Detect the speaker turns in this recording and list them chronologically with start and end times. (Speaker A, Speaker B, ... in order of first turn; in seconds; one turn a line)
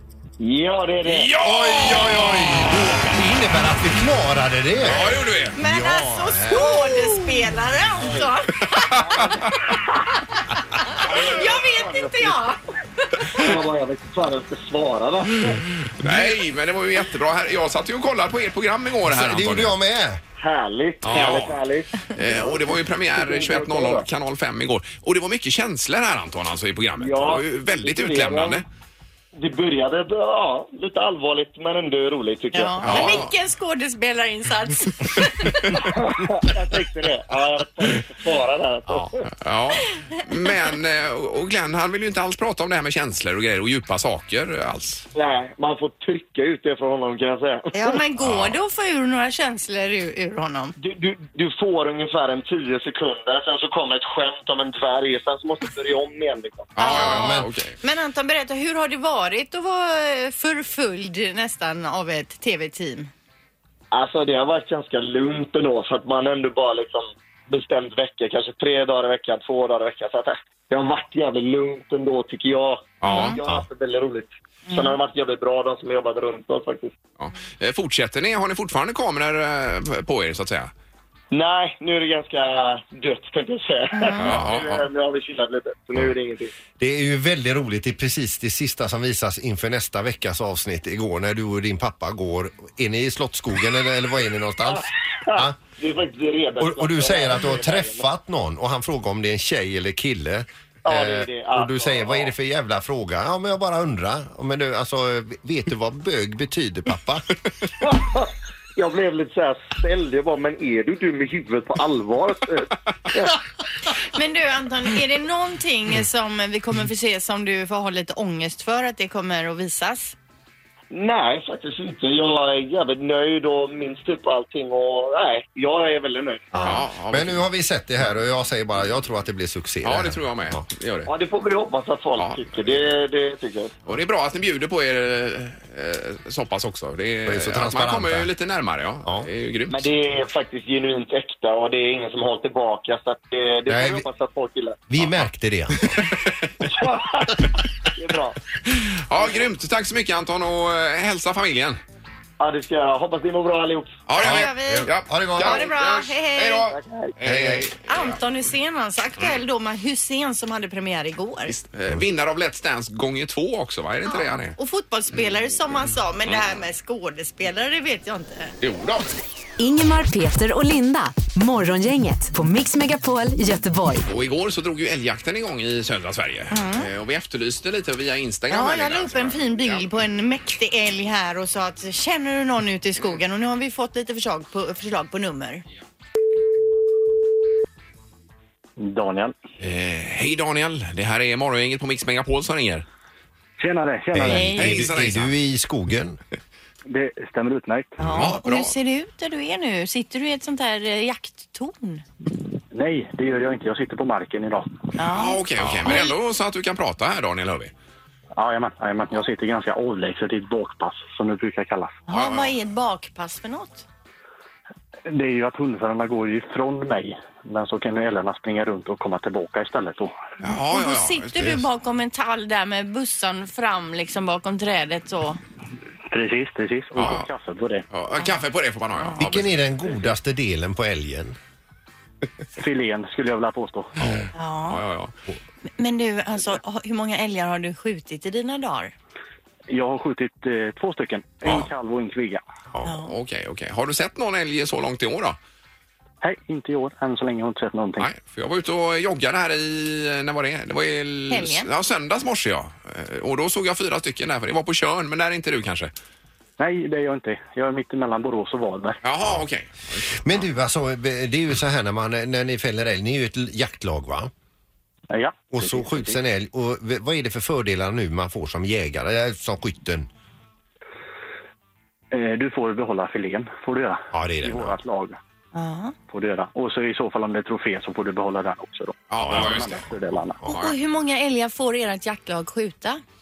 Speaker A: 0.4-1.3
Speaker B: 1.1-3.0
Speaker C: 1.4-6.8
Speaker B: 4.8-5.6
Speaker D: 5.5-9.0
Speaker A: 8.0-8.3
Speaker B: 8.7-9.6
Speaker A: 8.9-10.1
Speaker D: 10.9-13.4
Speaker A: 10.9-12.4
Speaker A: 13.3-15.6
Speaker B: 16.0-19.8
Speaker C: 19.1-20.2
Speaker A: 20.4-24.1
Speaker C: 21.0-21.5
Speaker B: 21.1-21.6
Speaker B: 22.1-28.6
Speaker A: 27.0-28.6
Speaker A: 29.4-33.2
Speaker D: 32.5-35.9
Speaker B: 32.8-33.3
Speaker A: 35.8-39.2
Speaker B: 39.4-45.1
Speaker A: 45.1-48.0
Speaker D: 47.7-50.8
Speaker B: 48.2-48.5
Speaker A: 50.8-56.7
Speaker B: 56.8-57.8
Speaker D: 56.8-63.1
Speaker C: 56.9-57.5
Speaker A: 63.9-77.0
Speaker B: 73.0-73.4
Speaker D: 73.1-73.4
Speaker D: 74.7-75.0
Speaker B: 77.2-80.7
Speaker A: 81.3-86.5
Speaker D: 83.9-84.3
Speaker B: 84.2-84.9
Speaker C: 86.8-95.6
Speaker A: 94.7-98.0
Speaker C: 96.6-107.3
Speaker A: 100.9-102.3
Speaker A: 107.8-113.4
Speaker D: 113.9-120.2
Speaker A: 120.9-126.5
Speaker C: 126.5-130.6
Speaker B: 126.6-127.4
Speaker B: 129.8-131.1
Speaker A: 131.1-133.7
Speaker B: 132.2-132.8
Speaker B: 133.9-139.8
Speaker C: 137.3-138.3
Speaker A: 139.7-144.8
Speaker C: 143.7-144.1
Speaker C: 144.9-146.0
Speaker B: 145.0-145.2
Speaker B: 146.0-146.5
Speaker A: 146.6-148.4
Speaker B: 148.7-151.8
Speaker A: 149.2-149.4
Speaker A: 152.4-154.0
Speaker B: 154.1-158.2
Speaker D: 154.2-156.7
Speaker C: 154.2-155.7
Speaker A: 156.7-157.6
Speaker C: 157.3-157.6
Speaker D: 157.9-161.6
Speaker B: 161.5-164.6
Speaker D: 164.1-168.5
Speaker B: 168.6-169.2
Speaker E: 169.6-174.1
Speaker B: 174.1-179.9
Speaker D: 176.5-176.9
Speaker D: 178.5-185.6
Speaker F: 188.8-189.3
Speaker B: 189.6-192.8
Speaker F: 193.6-194.7
Speaker C: 194.1-196.2
Speaker D: 194.3-194.8
Speaker B: 194.6-195.3
Speaker F: 196.9-198.0
Speaker D: 198.0-202.0
Speaker C: 198.1-198.3
Speaker B: 198.1-198.7
Speaker F: 202.7-204.7
Speaker D: 205.0-206.1
Speaker B: 205.1-207.7
Speaker C: 205.6-205.9
Speaker F: 208.4-212.0
Speaker D: 212.1-213.9
Speaker B: 212.1-212.5
Speaker F: 215.1-220.2
Speaker B: 220.4-221.6
Speaker D: 220.5-225.4
Speaker F: 226.1-227.9
Speaker B: 226.9-227.3
Speaker B: 227.9-229.6
Speaker C: 229.2-231.4
Speaker F: 232.6-233.9
Speaker B: 234.0-235.1
Speaker D: 234.3-234.8
Speaker D: 235.8-238.9
Speaker F: 239.7-242.4
Speaker D: 242.8-243.1
Speaker B: 242.9-245.4
Speaker F: 246.2-248.1
Speaker B: 248.0-255.9
Speaker D: 251.3-251.7
Speaker F: 256.6-259.0
Speaker B: 259.0-260.4
Speaker C: 260.2-264.3
Speaker F: 265.1-266.2
Speaker C: 265.5-270.1
Speaker F: 272.1-275.2
Speaker C: 274.1-274.8
Speaker D: 275.5-275.9
Speaker F: 276.1-280.4
Speaker B: 279.1-279.9
Speaker C: 279.2-279.6
Speaker D: 280.4-283.0
Speaker B: 280.4-280.8